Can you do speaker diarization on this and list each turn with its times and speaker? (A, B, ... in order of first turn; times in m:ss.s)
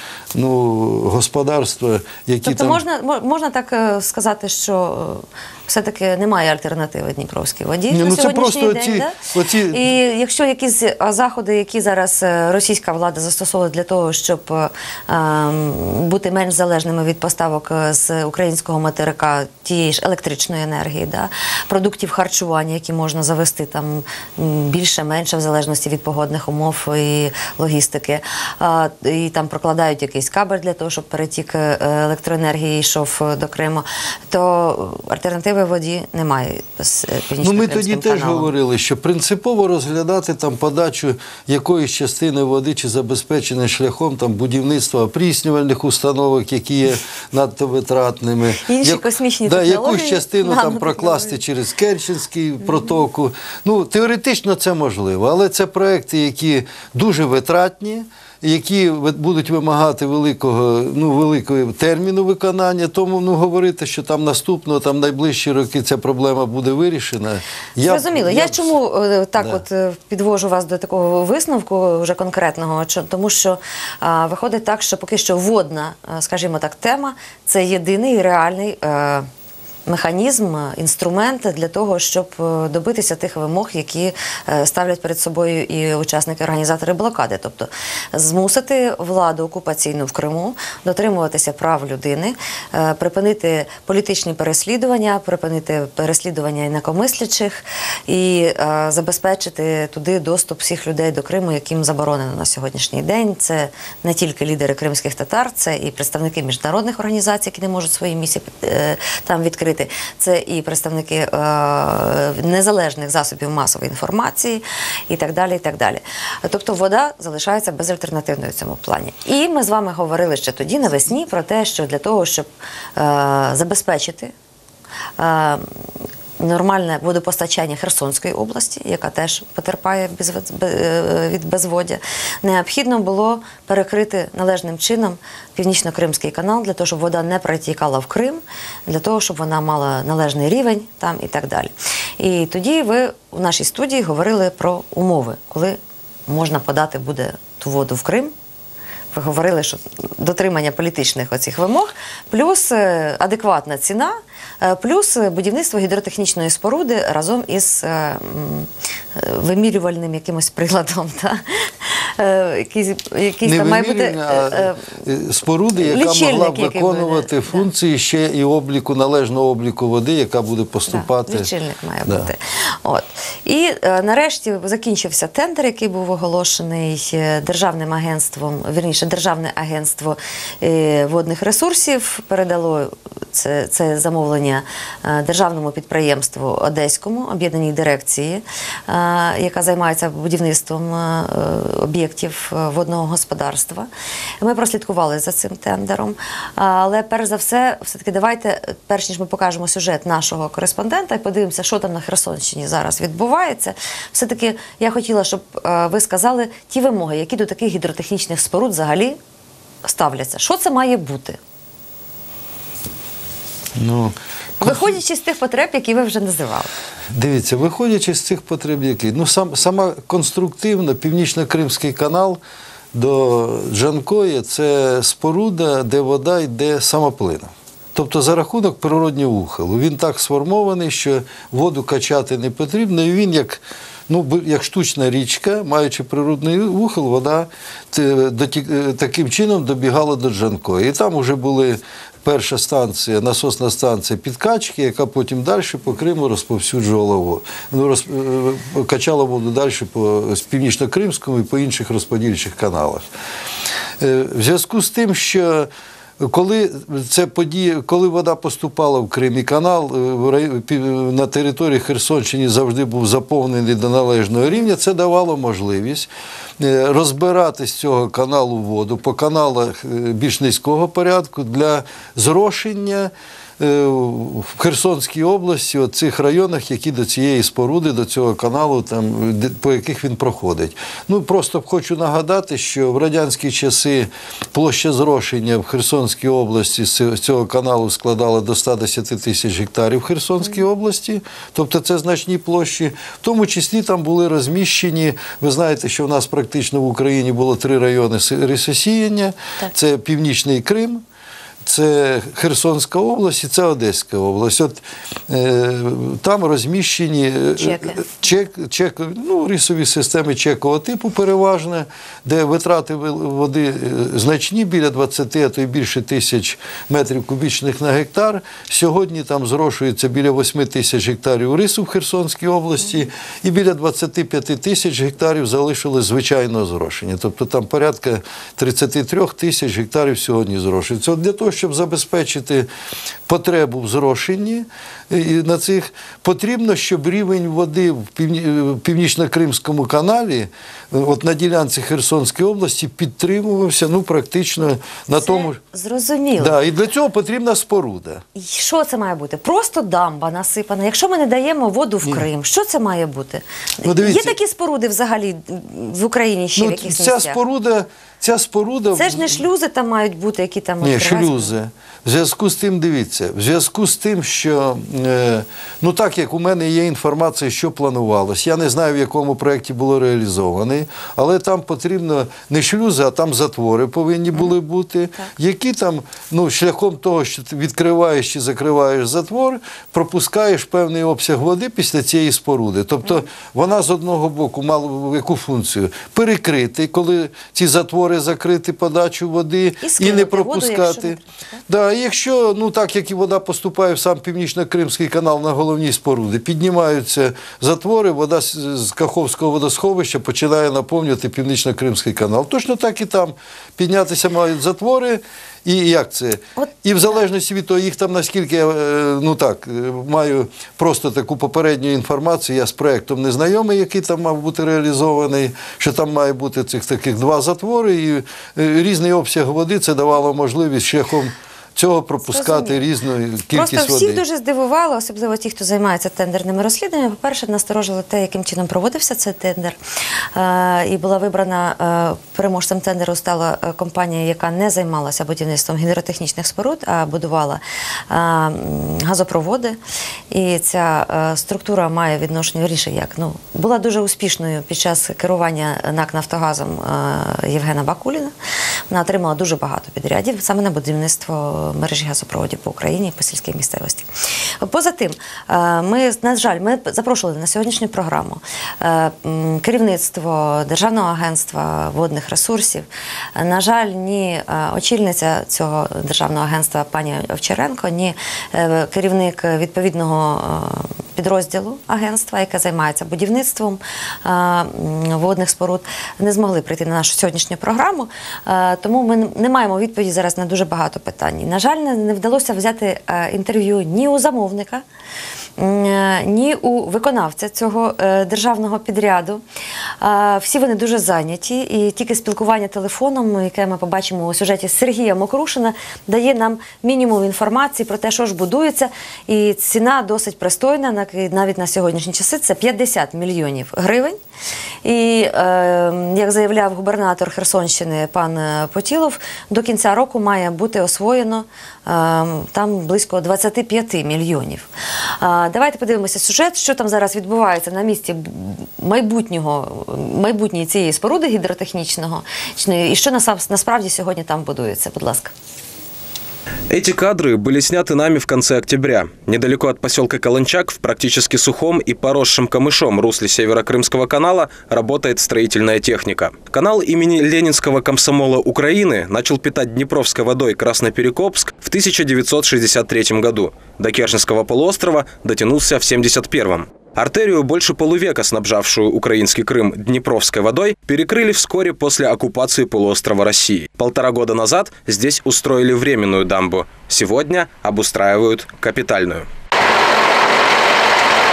0:00.3-0:02.8 A
0:02.4-0:09.2 B
0:07.9-0:09.9 A
0:09.7-0:38.5 B
0:37.4-1:08.7 A
0:48.6-0:51.4 B
1:07.8-1:19.3 B
1:19.9-2:04.3 B
2:05.2-2:05.7 B
2:06.4-2:28.3 B
2:29.1-2:44.8 B
2:43.4-2:51.5 A
2:45.8-2:47.6 B
2:50.9-3:13.9 B
3:14.4-3:29.2 B
3:29.8-3:31.4 B
3:33.8-3:35.0 A
3:34.6-3:36.7 B
3:37.1-3:42.4 A
3:42.9-4:13.0 A
4:14.0-5:01.0 A
5:01.6-5:32.7 A
5:07.7-5:08.0 B
5:33.3-5:45.6 A
5:45.1-5:46.5 B
5:46.4-5:48.2 A
5:48.3-5:57.4 B
5:53.8-5:54.4 A
5:56.6-5:59.4 A
5:58.9-6:01.5 B
6:00.8-7:04.2 A
6:29.8-6:31.6 B
7:02.3-7:02.8 B
7:03.5-7:09.8 B
7:10.3-7:19.8 B
7:20.3-7:28.3 B
7:28.9-7:34.1 B
7:34.6-8:04.8 B
8:05.6-8:09.4 B
8:10.0-8:24.2 B
8:24.8-8:34.7 B
8:35.2-8:45.3 B
8:46.7-9:19.2 C